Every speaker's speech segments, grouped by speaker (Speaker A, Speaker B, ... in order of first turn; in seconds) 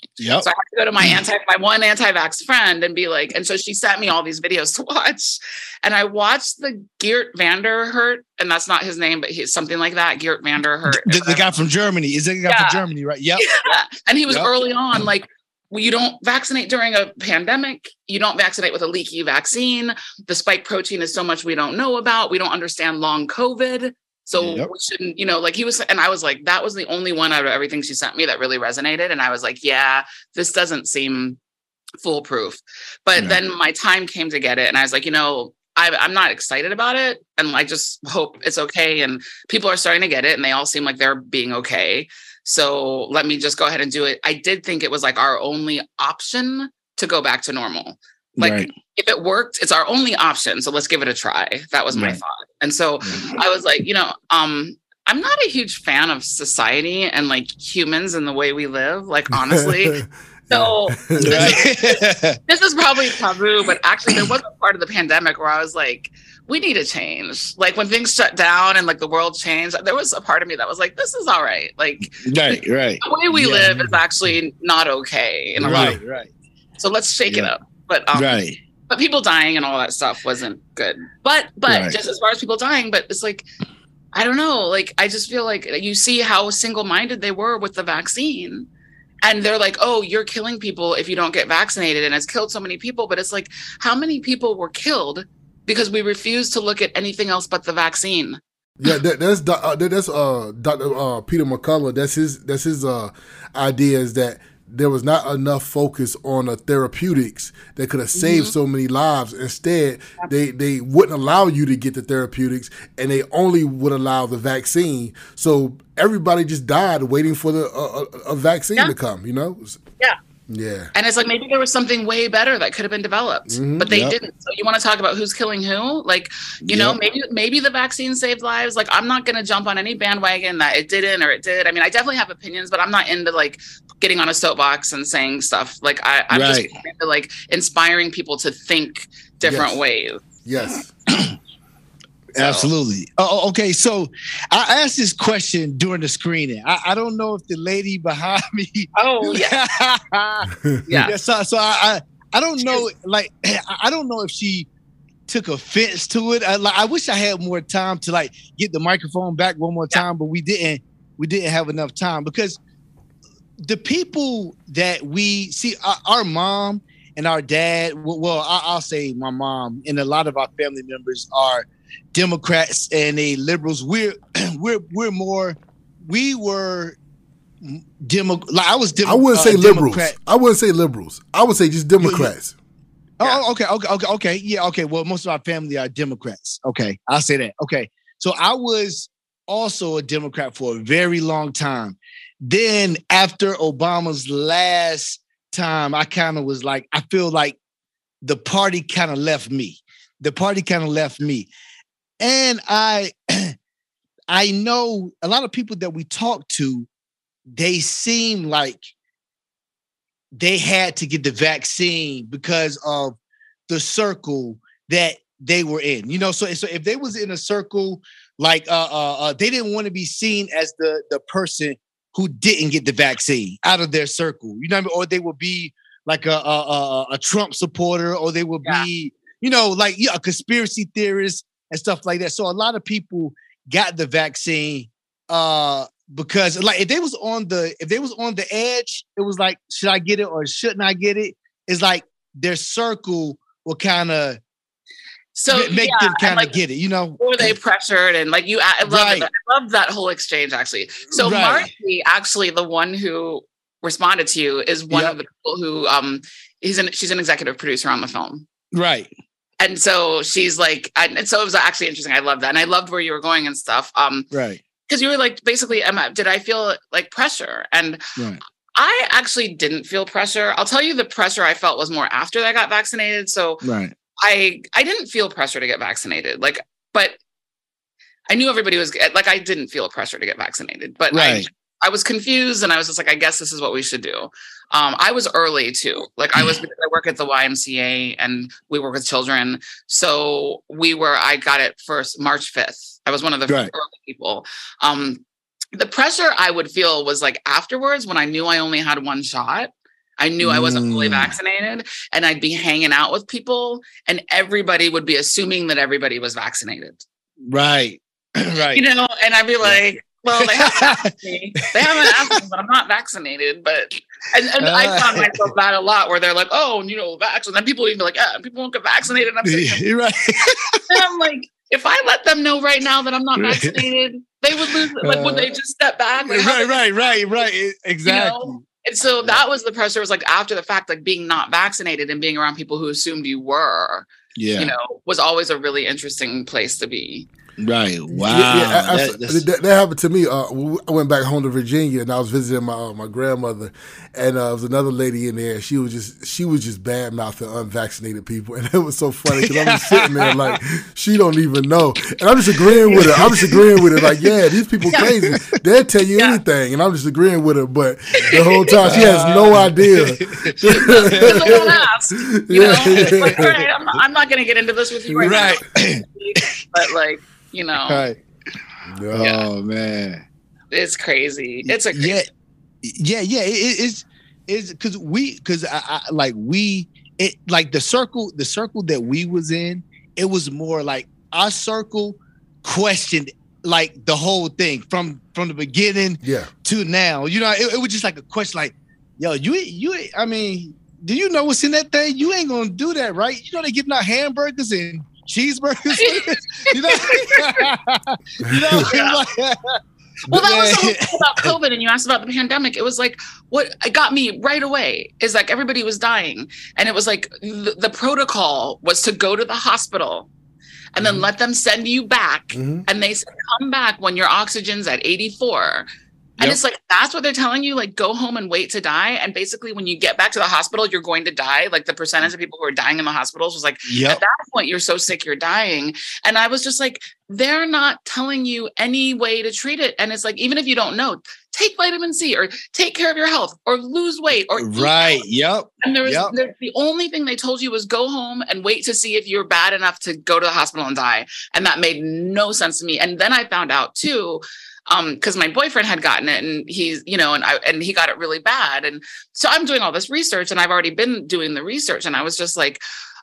Speaker A: 0.2-0.5, 10.9-13.5, 24.4-24.7, 48.4-48.7, 51.9-52.2, 53.1-53.4, 61.2-62.4, 72.2-74.0, 75.6-76.3, 77.3-77.5, 78.1-78.6, 81.7-82.0, 123.9-124.1, 126.6-127.0, 136.3-136.7, 141.1-141.3, 142.3-154.7, 155.3-162.6, 163.6-177.0, 177.6-180.1, 182.0-182.3, 183.2-197.6, 198.2-201.5, 202.2-203.6, 204.3-206.9, 207.5-208.8, 210.4-213.2, 213.7-244.4, 245.5-247.2, 248.8-249.3, 251.1-251.7, 254.9-255.2, 258.7-259.1, 264.3-264.6, 268.1-268.4, 273.6-273.9, 281.1-281.5, 300.4-301.3, 307.4-308.8, 309.6-311.1, 311.6-312.4, 314.6-315.4, 319.4-321.0, 323.4-323.8, 324.7-325.6, 326.2-328.6, 334.4-334.7, 337.6-339.4, 349.3-350.5, 352.9-354.3, 354.9-355.5, 358.8-361.8, 362.6-363.6, 365.2-366.6, 367.9-368.2, 369.1-370.2, 371.6-372.3, 372.8-401.6, 423.9-424.2, 434.6-436.3
Speaker B: 0.4-11.6, 12.5-12.8, 13.4-31.4, 32.0-76.0, 76.8-83.5, 84.1-88.7, 89.2-98.4, 108.2-108.5, 120.9-140.2, 142.4-142.7, 148.9-149.7, 150.9-151.1, 245.3-246.5, 247.2-258.5, 259.6-264.3, 264.9-268.0, 268.8-273.6, 274.2-277.2, 278.3-295.2, 295.7-307.0, 308.7-319.8, 320.9-327.2, 328.1-337.3, 356.2-356.4, 358.2-358.8, 360.7-368.0, 369.2-369.5, 370.7-372.2, 395.9-397.7, 398.8-399.2, 400.3-410.3, 410.9-415.9, 416.4-435.2, 435.8-452.8
Speaker C: 59.5-61.6, 75.6-76.0, 98.8-119.8, 120.5-120.9, 123.5-123.9, 139.4-139.8, 140.4-140.9, 179.0-182.6, 338.1-363.5, 368.9-369.3, 386.2-386.5, 398.4-398.8, 412.5-412.9